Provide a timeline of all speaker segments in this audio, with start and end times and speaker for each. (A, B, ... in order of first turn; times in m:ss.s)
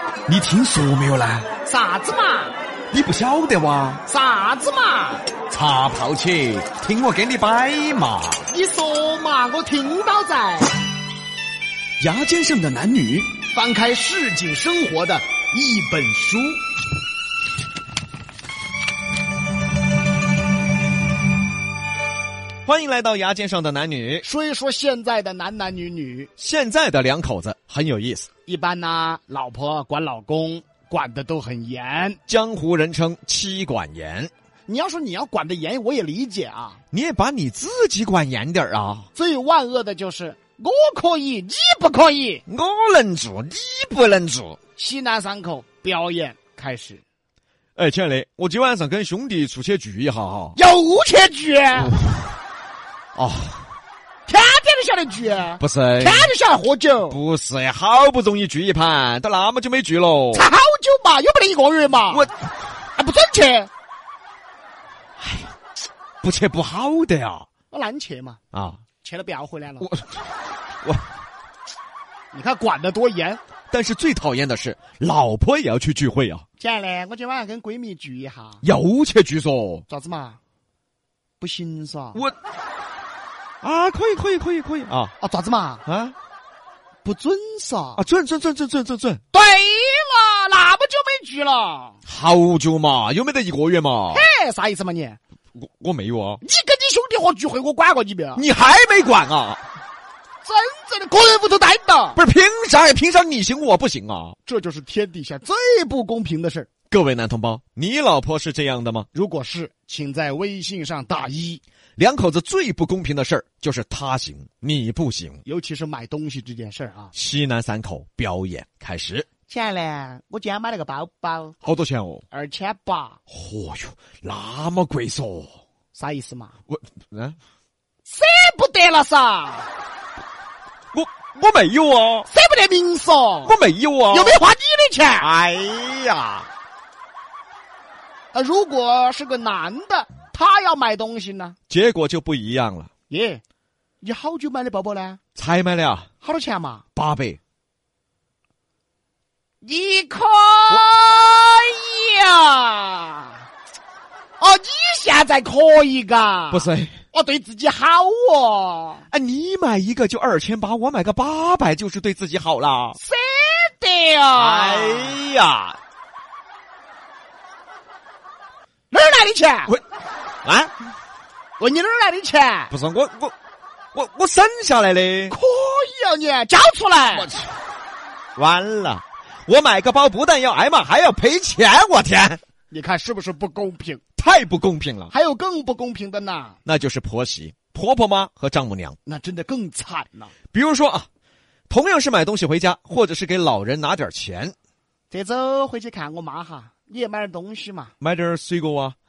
0:00.3-0:01.5 A
0:01.6-0:02.5 B
0:02.9-0:04.0 A
0:04.0-0:05.2 B
0:05.5-0:08.4 A
0:08.5-0:10.7 B
0:12.0-0:13.3 A
0:13.4-0:16.6 B
0:22.6-0:24.3 A
0:24.2-0:26.3 B
0:26.4-0:28.3 A
0:28.4-0:32.2 B
0:32.3-0:34.3 A
0:34.7-0:36.8 B
0:36.9-0:39.1 A
0:39.2-0:42.4 B
0:42.5-0:44.6 A
0:44.8-0:47.0 B
0:47.8-0:50.6 A
0:50.6-0:52.0 B
0:51.8-0:52.1 A
0:53.2-0:53.6 A
0:54.3-0:57.2 B
0:55.6-0:56.3 A
0:57.1-1:00.5 A
1:00.3-1:02.3 B
1:03.0-1:03.7 B
1:05.2-1:05.5 A
1:06.2-1:07.5 A
1:07.7-1:08.4 B
1:08.5-1:08.8 A
1:09.0-1:09.9 B
1:09.8-1:10.2 A
1:12.3-1:13.4 B
1:13.7-1:16.4 A
1:16.6-1:18.6 B
1:18.6-1:19.8 A
1:19.9-1:20.4 B
1:21.4-1:22.2 B
1:23.6-1:25.1 A
1:25.2-1:25.8 B
1:25.8-1:26.1 A
1:27.0-1:28.0 B
1:28.0-1:29.2 A
1:29.3-1:32.0 B
1:32.0-1:34.2 A
1:34.1-1:35.2 B
1:35.6-1:36.4 A
1:36.4-1:38.4 B
1:38.4-1:39.6 A
1:40.4-1:42.2 B
1:42.2-1:44.4 A
1:44.4-1:46.7 B
1:46.9-1:49.1 A
1:49.1-1:51.6 B
1:52.0-1:55.4 A
1:55.4-1:57.1 B
1:57.1-1:59.3 A
1:59.5-2:01.6 B
2:01.6-2:02.2 A
2:02.3-2:03.2 B
2:03.3-2:05.5 A
2:05.9-2:06.5 B
2:06.7-2:07.4 A
2:08.0-2:09.7 B
2:10.9-2:12.3 A
2:12.3-2:13.6 B
2:13.4-2:14.4 A
2:14.1-2:15.3 B
2:15.2-2:16.5 A
2:18.3-2:21.6 B
2:21.7-2:22.9 A
2:23.1-2:23.4 B
2:24.0-2:25.2 B
2:25.4-2:26.1 A
2:26.2-2:26.8 B
2:26.9-2:27.4 A
2:29.6-2:33.4 B
2:30.7-2:30.9 A
2:34.4-2:39.0 B
2:36.5-2:37.0 A
2:39.1-2:43.0 A
2:43.0-2:45.2 B
2:44.3-2:45.8 A
2:48.9-2:49.7 B
2:50.4-2:50.7 A
2:51.6-2:52.7 B
2:52.7-2:53.3 A
2:53.9-2:55.4 A
2:55.3-2:57.3 B
2:57.1-2:57.4 A
2:58.4-3:02.4 A
3:02.7-3:04.0 B
3:04.2-3:05.1 A
3:05.1-3:06.6 B
3:06.6-3:09.0 A
3:09.1-3:10.3 B
3:10.5-3:11.1 A
3:11.7-3:14.5 A
3:15.1-3:17.9 B
3:18.0-3:19.0 A